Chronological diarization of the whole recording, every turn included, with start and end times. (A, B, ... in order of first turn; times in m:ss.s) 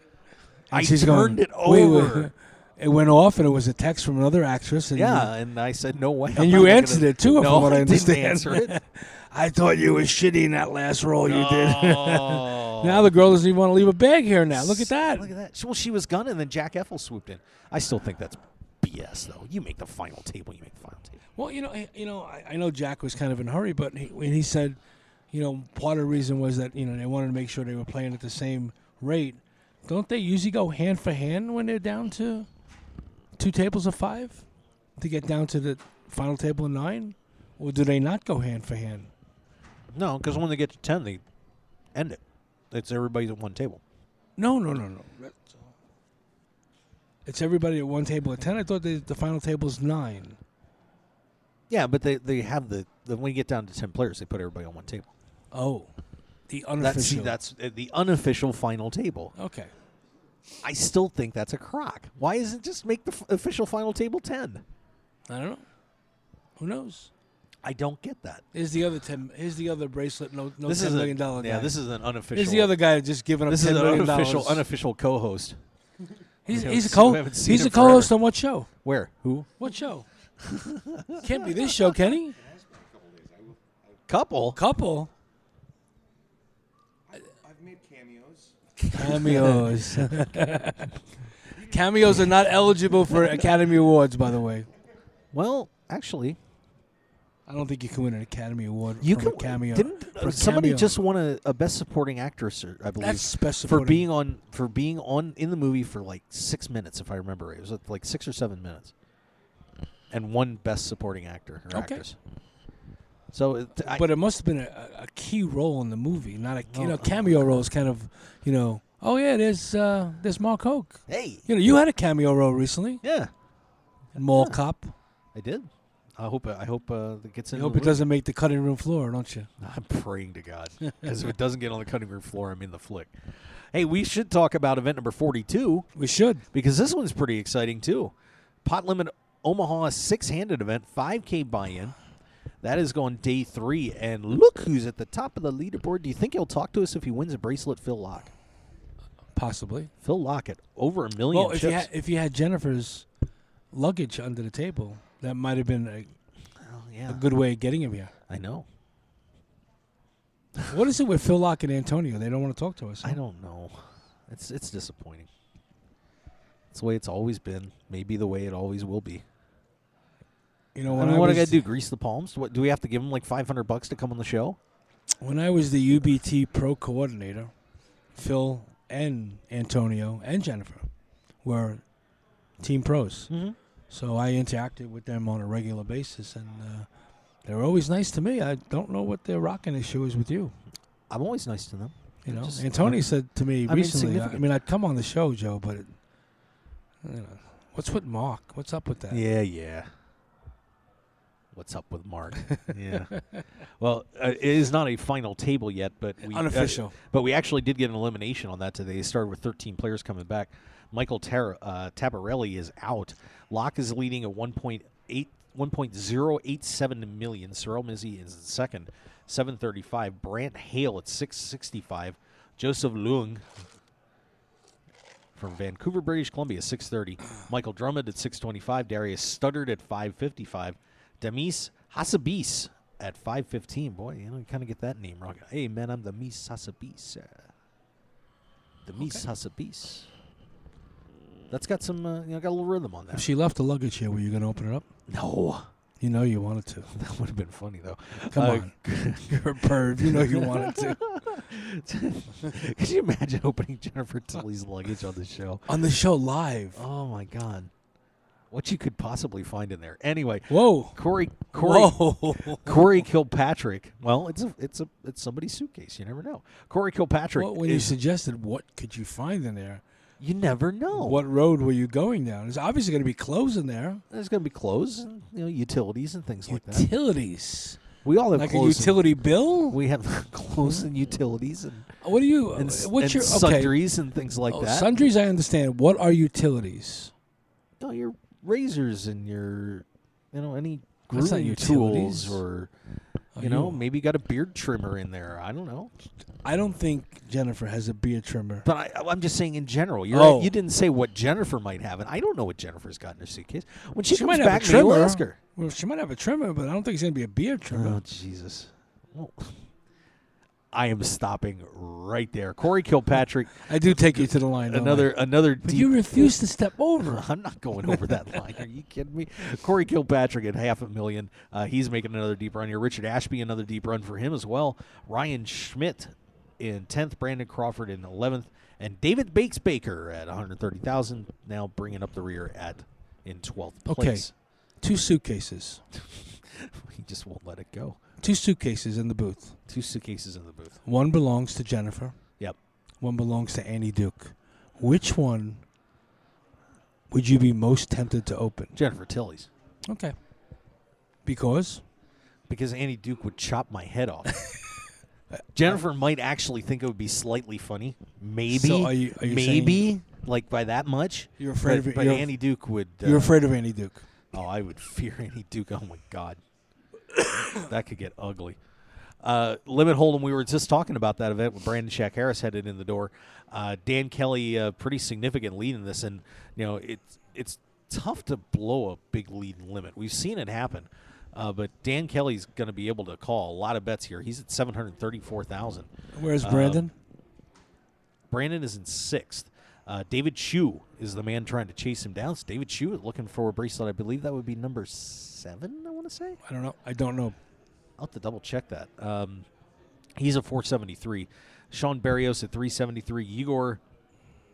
0:00.7-0:02.3 A
0:00.7-0:05.3 B
0:04.9-0:08.8 A
0:06.4-0:15.3 B
0:11.2-0:13.1 A
0:14.5-0:21.2 A
0:21.4-0:24.8 B
0:25.3-0:32.5 B
0:33.4-0:39.1 B
0:39.9-0:41.2 A
0:41.9-0:43.8 A
0:44.4-0:45.7 B
0:47.2-0:50.4 B
0:51.7-0:55.1 A
0:55.5-0:55.9 B
0:56.5-0:57.4 B
0:56.8-0:59.3 A
0:59.4-0:59.7 B
1:00.6-1:04.6 A
1:05.3-1:05.6 B
1:06.6-1:07.1 B
1:07.6-1:08.4 A
1:08.5-1:11.8 B
1:10.6-1:12.8 A
1:12.3-1:14.6 B
1:13.4-1:15.6 A
1:16.4-1:18.7 B
1:16.5-1:18.2 A
1:18.8-1:19.5 A
1:19.6-1:20.0 B
1:20.4-1:21.5 A
1:21.2-1:22.4 B
1:22.4-1:23.8 C
1:24.1-1:24.6 A
1:24.5-1:25.1 B
1:27.1-1:28.5 C
1:28.9-1:30.9 B
1:29.1-1:30.3 A
1:31.6-1:34.7 B
1:35.3-1:36.4 A
1:37.5-1:40.9 B
1:39.0-1:48.9 A
1:43.0-1:44.0 B
1:50.1-1:52.2 A
1:51.7-1:52.0 B
1:53.3-1:54.0 A
1:53.8-2:03.0 B
1:56.7-1:57.4 A
2:01.1-2:01.4 A
2:03.0-2:03.3 A
2:04.1-2:04.9 B
2:05.3-2:08.0 A
2:07.5-2:09.5 B
2:09.6-2:15.9 A
2:15.9-2:16.4 B
2:16.5-2:22.0 A
2:22.6-2:28.3 A
2:29.3-2:29.9 B
2:30.0-2:31.9 A
2:31.3-2:33.1 B
2:33.7-2:36.1 B
2:36.6-2:37.2 A
2:37.1-2:38.1 B
2:38.3-2:38.6 A
2:40.7-2:43.2 B
2:43.0-2:45.3 A
2:46.7-2:49.2 A
2:50.7-2:51.6 B
2:50.9-2:54.6 A
2:55.2-2:57.5 B
2:58.1-3:00.9 B
3:01.4-3:01.8 B
3:02.6-3:03.3 B
3:03.3-3:03.6 A
3:03.9-3:06.9 B
3:07.4-3:10.5 B
3:11.1-3:13.0 A
3:12.2-3:15.9 B
3:13.6-3:14.5 A
3:17.0-3:19.2 B
3:19.1-3:19.9 A
3:21.5-3:43.5 A
3:26.3-3:27.0 B
3:45.4-3:57.5 A
3:58.8-4:00.1 A
3:59.0-3:59.2 B
4:01.5-4:03.3 A
4:03.1-4:04.8 B
4:05.1-4:05.7 A
4:06.0-4:06.9 B
4:06.9-4:15.7 A
4:08.3-4:11.0 B
4:15.7-4:16.8 B
4:16.7-4:17.7 A
4:18.5-4:22.0 A
4:20.5-4:21.0 B
4:21.5-4:23.0 B
4:22.5-4:27.9 A
4:27.4-4:29.8 B
4:30.2-4:31.2 A
4:30.9-4:34.0 B
4:34.1-4:36.9 A
4:36.5-4:37.8 B
4:38.0-4:39.1 A
4:38.3-4:39.8 B
4:39.7-4:41.9 A
4:42.0-4:43.8 B
4:42.5-4:44.9 A
4:44.5-4:47.1 B
4:47.8-4:52.7 A
4:51.1-4:52.4 B
4:53.4-4:53.8 B
4:53.4-4:55.9 A
4:56.4-4:58.7 B
4:58.6-5:05.4 A
5:00.1-5:00.5 B
5:04.1-5:08.0 B
5:07.7-5:09.6 A
5:10.7-5:16.3 A
5:13.6-5:15.1 B
5:15.6-5:17.2 B
5:17.0-5:34.3 A
5:33.9-5:35.8 B
5:35.9-5:38.0 A
5:38.2-5:39.6 B
5:39.7-5:40.8 A
5:40.8-5:42.2 B
5:43.0-5:45.6 B
5:47.1-5:48.7 B
5:48.7-5:49.5 A
5:49.9-5:50.2 B
5:51.2-5:51.8 B
5:52.5-5:54.4 A
5:55.3-5:55.8 B
5:55.5-6:03.4 A
5:58.5-5:59.9 B
6:01.4-6:02.3 B
6:03.0-6:04.0 B
6:04.3-6:06.4 A
6:07.5-6:08.6 A
6:09.2-6:26.9 A
6:26.1-6:26.9 B
6:28.3-6:36.4 A
6:36.4-6:37.4 B
6:38.0-6:39.4 A
6:40.2-6:43.8 A